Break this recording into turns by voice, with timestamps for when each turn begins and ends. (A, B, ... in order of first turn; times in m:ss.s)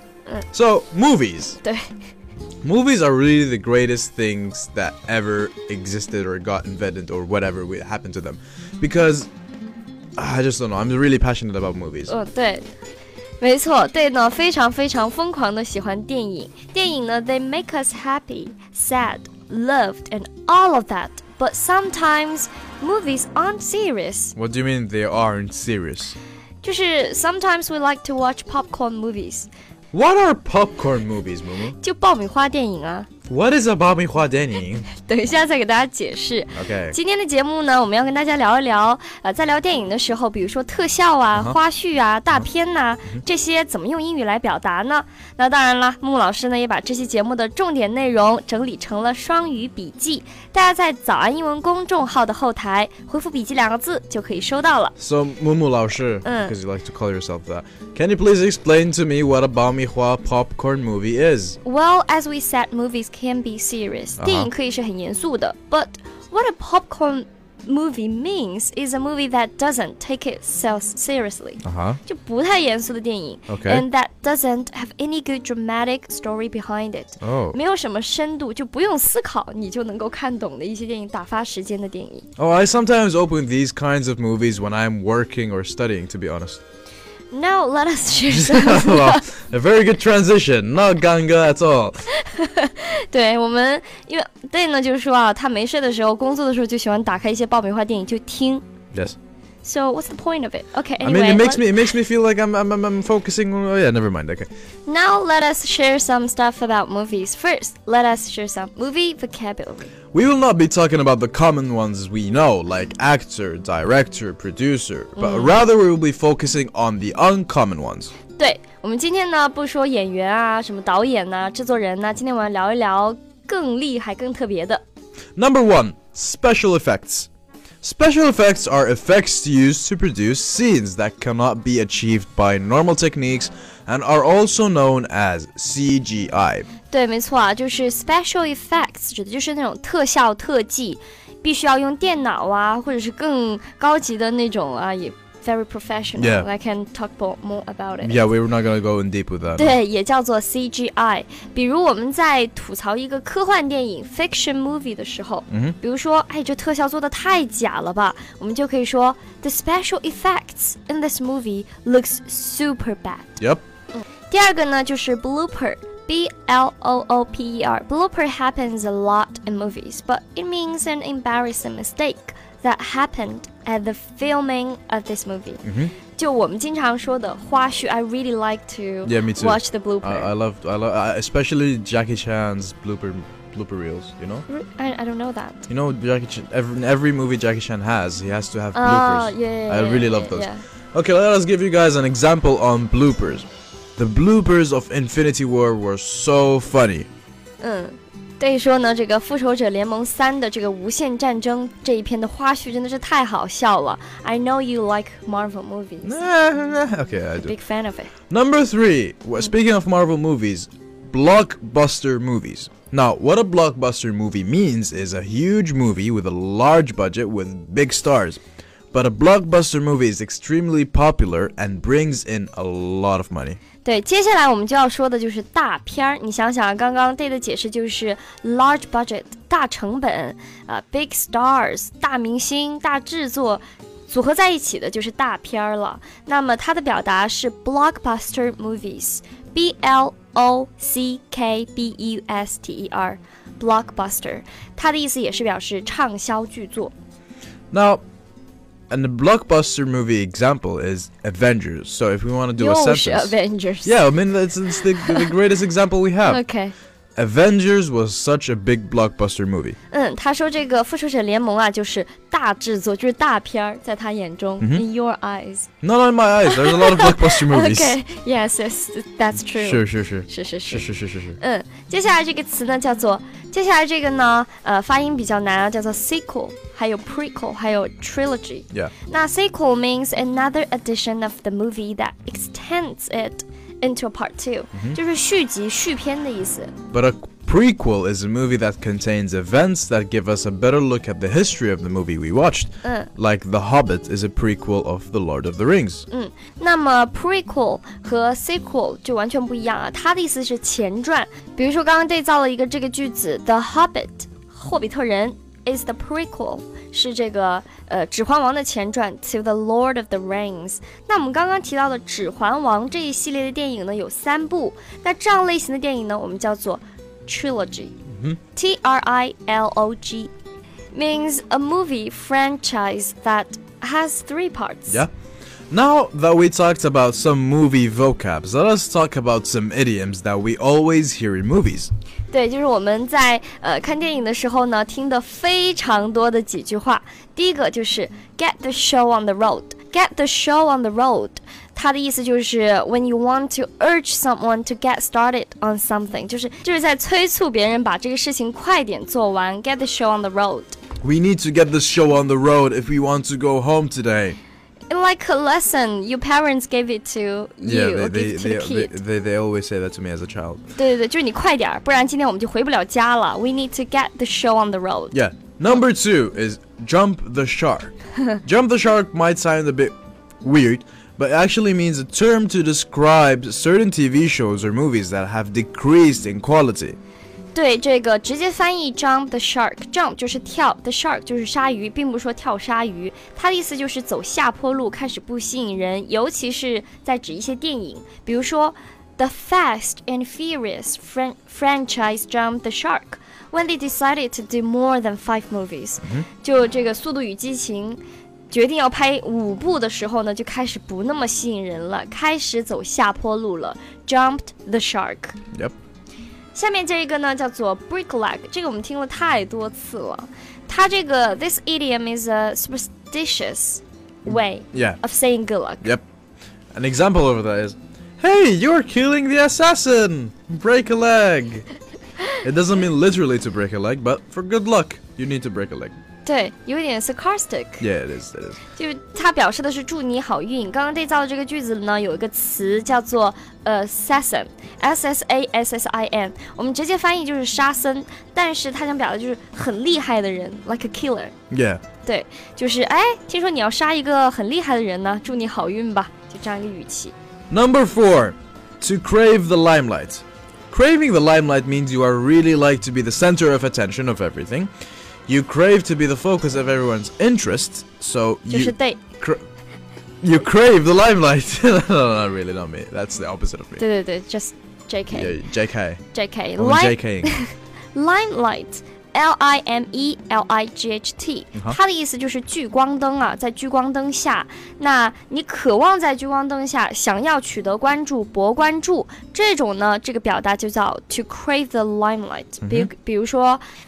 0:00.5-0:01.6 A
0:01.6-0:01.9 B
0:02.6-0:09.3 A
0:10.2-0:12.1 A
0:12.1-0:12.7 B
0:13.4-0:24.4 B
0:24.4-0:26.2 A
0:26.6-0:29.5 B
0:29.9-0:31.8 A
0:31.8-0:33.1 B
0:33.3-0:34.9 A
0:34.9-0:54.9 B
0:36.6-0:37.0 A
0:55.0-1:01.6 A
0:56.2-0:56.6 B
1:01.6-1:22.3 B
1:04.2-1:04.5 A
1:11.6-1:12.0 A
1:13.5-1:13.8 A
1:17.2-1:17.6 A
1:22.4-1:26.6 A
1:27.3-1:29.3 B
1:28.3-1:32.1 A
1:32.1-1:38.6 B
1:39.6-1:41.8 B
1:41.0-1:44.5 A
1:44.9-1:49.9 B
1:50.1-1:58.1 A
1:55.2-1:55.6 B
1:58.4-2:04.8 B
2:05.4-2:07.3 A
2:07.8-2:16.7 A
2:16.9-2:28.3 B
2:26.2-2:26.5 A
2:28.0-2:29.8 A
2:29.6-2:43.3 B
2:35.5-2:35.8 A
2:44.0-2:55.6 B
2:55.6-2:55.9 A
2:56.2-3:00.3 B
2:59.1-3:04.5 A
3:04.5-3:05.6 B
3:05.7-3:17.1 A
3:08.8-3:10.6 B
3:17.6-3:26.2 B
3:26.0-3:27.5 A
3:27.4-3:28.1 B
3:28.3-3:38.4 A
3:38.9-3:43.6 A
3:43.8-4:06.9 B
4:07.7-4:08.0 A
4:08.9-4:16.4 A
4:12.6-4:14.0 B
4:14.7-4:15.3 B
4:16.2-4:16.7 B
4:17.2-4:19.8 A
4:19.9-4:25.7 B
4:25.8-4:28.0 A
4:26.4-4:30.9 B
4:29.6-4:31.4 A
4:31.4-4:46.7 B
4:44.7-4:45.0 A
4:46.9-4:56.0 A
4:52.8-4:53.1 B
4:56.1-5:18.0 B
5:18.1-5:18.4 A
5:18.6-5:20.3 B
5:20.9-5:25.0 B
5:25.7-5:31.9 A
5:32.3-5:50.8 B
5:51.0-5:54.4 A
5:54.9-5:59.0 B
5:57.6-6:00.6 A
6:00.8-6:05.2 B
6:05.1-6:07.9 A
6:08.4-6:17.0 A
6:17.6-6:45.4 B
6:46.6-6:55.9 B
6:54.7-6:55.0 A
6:56.7-7:01.7 A
7:02.4-7:05.9 A
7:06.2-7:07.8 B
7:07.8-7:08.6 A
7:08.8-7:21.3 B
7:21.5-7:21.8 A
7:22.0-7:27.1 B
7:27.5-7:34.7 A
7:35.3-7:39.4 A
7:38.5-7:39.0 B
7:40.2-7:43.8 A
7:43.8-7:45.3 B
7:45.1-7:46.0 A
7:46.1-8:03.6 B
7:46.6-7:47.4 A
8:02.6-8:02.9 A